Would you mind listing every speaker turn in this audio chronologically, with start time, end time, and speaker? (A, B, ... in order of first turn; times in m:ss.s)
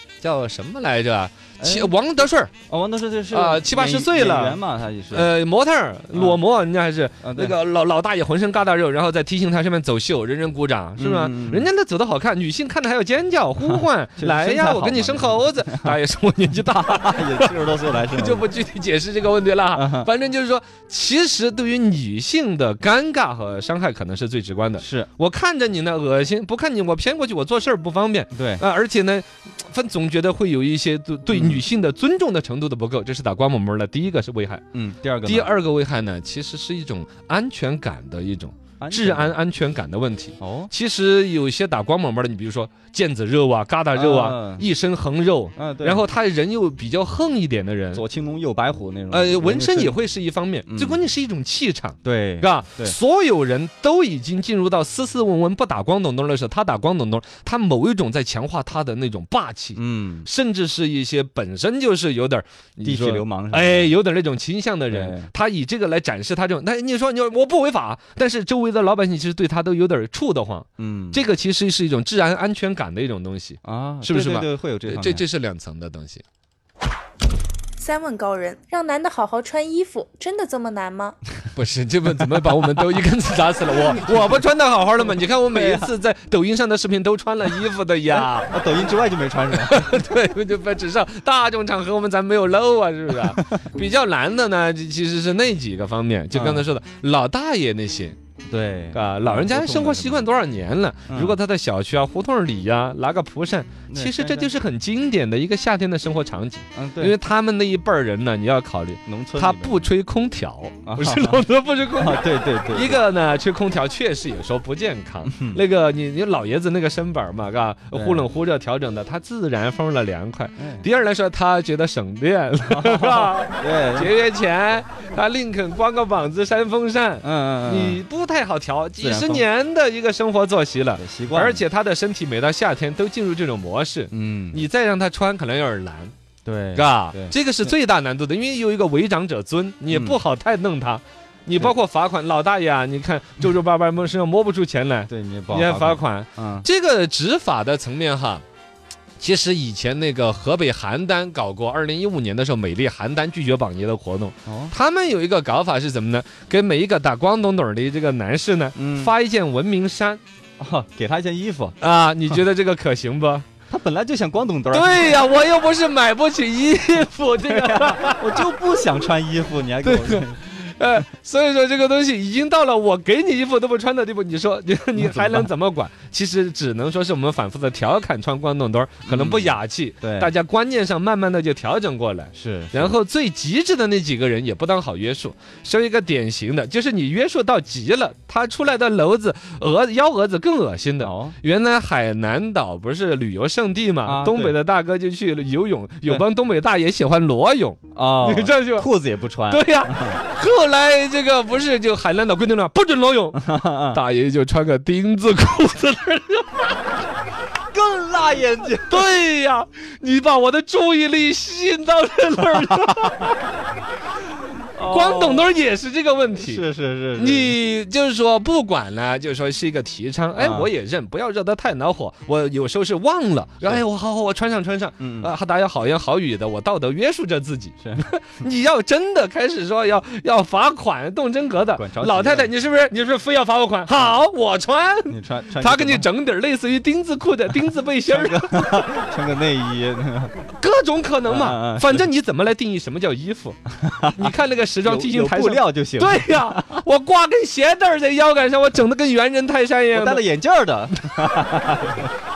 0:00.2-0:02.5 A
0:01.6-0:01.9 B
0:02.7-0:05.3 B
0:03.3-0:34.6 A
0:06.1-0:06.4 B
0:07.2-0:07.5 B
0:11.0-0:11.7 B
0:13.7-0:16.0 B
0:16.6-0:18.5 B
0:19.7-0:20.1 B
0:24.8-0:25.1 B
0:28.3-0:28.6 B
0:31.3-0:31.6 B
0:34.7-0:35.5 B
0:35.2-0:48.0 A
0:38.8-0:39.3 B
0:40.4-0:40.7 B
0:43.9-0:44.6 B
0:45.6-0:46.0 B
0:47.9-0:50.0 B
0:49.1-1:16.2 A
0:50.7-0:51.0 B
0:52.0-0:53.0 B
0:59.7-1:00.3 B
1:02.8-1:03.9 B
1:04.9-1:05.3 B
1:10.8-1:11.2 B
1:13.6-1:15.2 B
1:17.8-1:21.2 C
1:21.5-1:28.5 A
1:25.5-1:25.9 B
1:28.1-1:29.8 B
1:29.5-1:38.2 A
1:36.3-1:36.6 B
1:38.5-1:40.2 B
1:38.9-2:16.1 A
1:41.1-1:41.4 B
1:43.9-1:44.5 B
1:46.7-1:47.2 B
1:49.0-1:49.9 B
1:50.8-1:53.0 B
1:55.2-1:55.6 B
1:57.9-1:58.2 B
2:00.6-2:00.8 B
2:02.7-2:04.1 B
2:07.2-2:08.0 B
2:09.0-2:09.4 B
2:11.0-2:11.6 B
2:14.1-2:14.6 B
2:16.4-2:17.7 B
2:16.7-2:28.4 A
2:19.9-2:20.2 B
2:25.1-2:26.7 B
2:29.2-2:40.2 A
2:34.4-2:34.7 B
2:38.8-2:39.1 B
2:40.6-2:41.7 B
2:41.8-2:43.5 A
2:43.7-2:45.2 B
2:44.7-2:48.5 A
2:47.4-2:50.4 B
2:49.8-3:18.9 A
2:55.0-2:55.5 B
2:59.0-3:00.3 B
3:02.3-3:03.0 B
3:11.0-3:11.4 B
3:14.0-3:14.6 B
3:17.9-3:20.2 B
3:19.5-3:27.0 A
3:23.3-3:24.0 B
3:27.7-3:29.0 B
3:28.9-3:33.4 A
3:34.7-3:35.5 B
3:34.8-3:36.6 A
3:36.3-3:37.5 B
3:37.2-3:58.9 A
3:40.4-3:40.7 B
3:45.0-3:45.3 B
3:51.7-3:52.5 B
3:55.1-3:56.1 B
3:58.1-4:00.3 B
4:00.4-4:03.6 A
4:01.2-4:02.1 B
4:03.8-4:06.8 B
4:04.1-4:10.2 A
4:09.9-4:12.1 B
4:11.2-4:11.4 A